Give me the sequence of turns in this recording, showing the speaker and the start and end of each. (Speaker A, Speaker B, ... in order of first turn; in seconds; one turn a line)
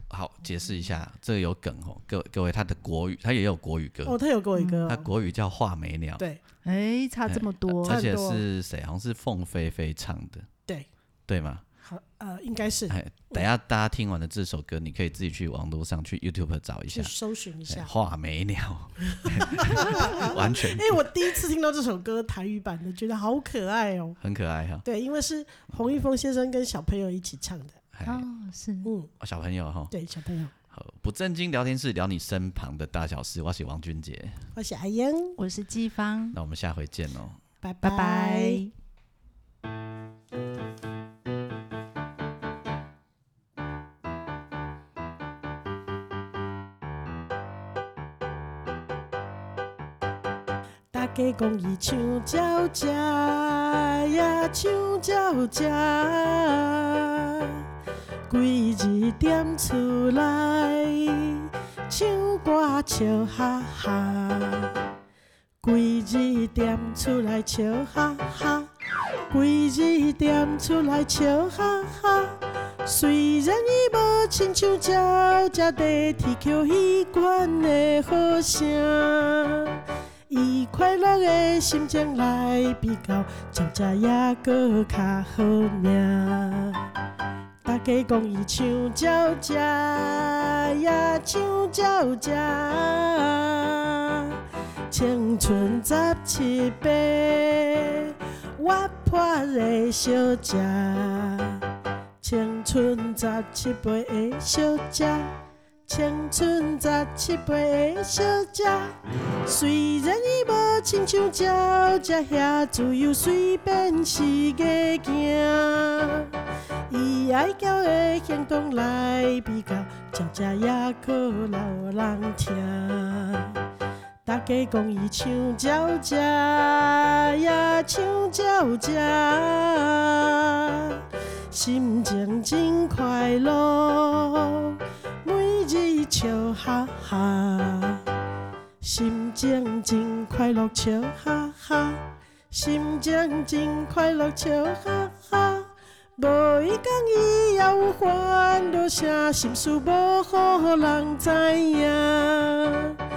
Speaker A: 0.1-4.2
Speaker B: 4.1-5.1
Speaker C: 4.6-4.8
Speaker A: 4.9-6.2
Speaker C: 6.6-8.0
Speaker A: 7.3-10.5
Speaker B: 7.8-8.4
Speaker A: 11.3-11.6
Speaker B: 11.8-13.4
Speaker A: 12.9-17.1
Speaker B: 16.9-17.9
Speaker A: 17.7-20.9
Speaker B: 19.1-24.2
Speaker A: 24.2-24.8
Speaker B: 24.9-27.8
Speaker A: 27.9-28.2
Speaker C: 28.1-28.9
Speaker A: 29.2-29.9
Speaker B: 29.9-30.5
Speaker A: 30.7-34.4
Speaker B: 34.5-35.4
Speaker C: 35.4-36.4
Speaker A: 36.3-37.4
Speaker B: 37.6-38.6
Speaker C: 37.8-38.7
Speaker B: 50.9-57.6
Speaker B: 58.3-64.8
Speaker B: 65.6-68.7
Speaker B: 69.3-86.8
Speaker B: 87.6-94.4
Speaker B: 94.9-101.7
Speaker B: 102.2-105.3
Speaker B: 105.9-116.3
Speaker B: 116.9-123.6
Speaker B: 124.2-138.0
Speaker B: 138.8-153.0